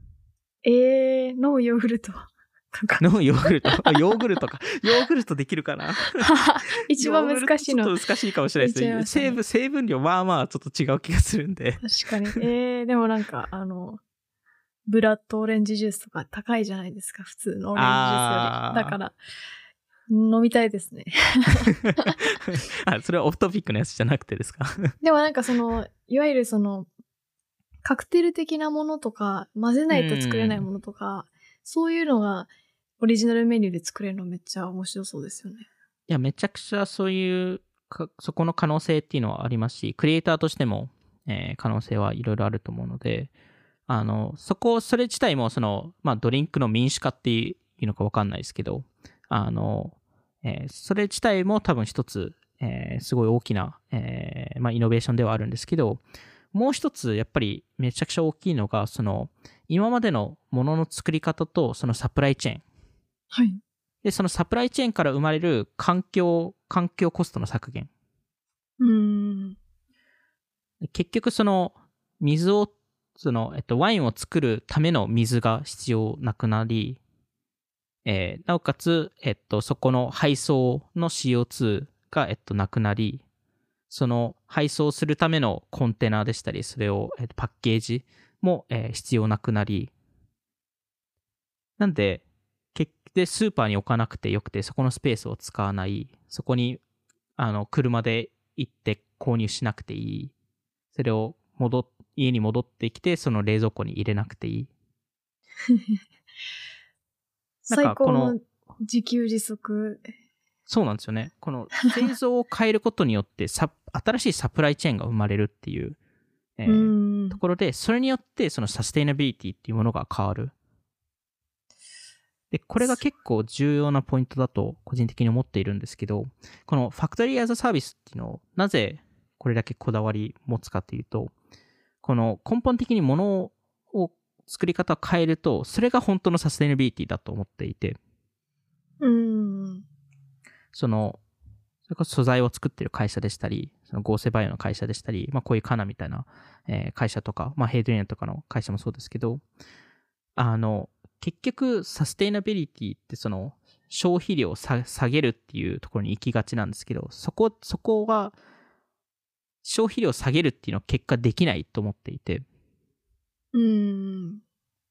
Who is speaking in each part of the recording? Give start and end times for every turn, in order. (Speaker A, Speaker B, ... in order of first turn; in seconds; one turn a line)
Speaker A: 0.6-3.9
Speaker B: 3.0-6.3
Speaker A: 6.2-7.9
Speaker B: 6.9-11.8
Speaker A: 8.6-9.4
Speaker A: 11.8-14.0
Speaker A: 14.9-19.1
Speaker B: 17.7-19.0
Speaker A: 20.1-22.2
Speaker B: 22.4-24.9
Speaker A: 25.0-26.9
Speaker A: 27.8-35.7
Speaker B: 29.9-30.7
Speaker B: 36.1-43.3
Speaker B: 43.9-56.0
Speaker B: 56.5-62.6
Speaker A: 63.3-63.6
Speaker B: 64.0-67.9
Speaker A: 68.8-69.6
Speaker B: 70.8-77.0
Speaker B: 78.0-83.2
Speaker B: 83.9-89.9
Speaker B: 91.8-96.8
Speaker B: 97.4-100.3
Speaker B: 100.9-104.7
Speaker A: 107.6-110.1
Speaker B: 107.7-108.4
Speaker B: 110.7-116.0
Speaker B: 116.6-120.5
Speaker A: 116.7-117.4
Speaker B: 122.5-131.3
Speaker B: 132.0-138.0
Speaker A: 139.0-139.8
Speaker B: 140.7-141.2
Speaker B: 141.9-149.4
Speaker B: 150.4-158.4
Speaker B: 159.6-162.4
Speaker A: 163.5-164.4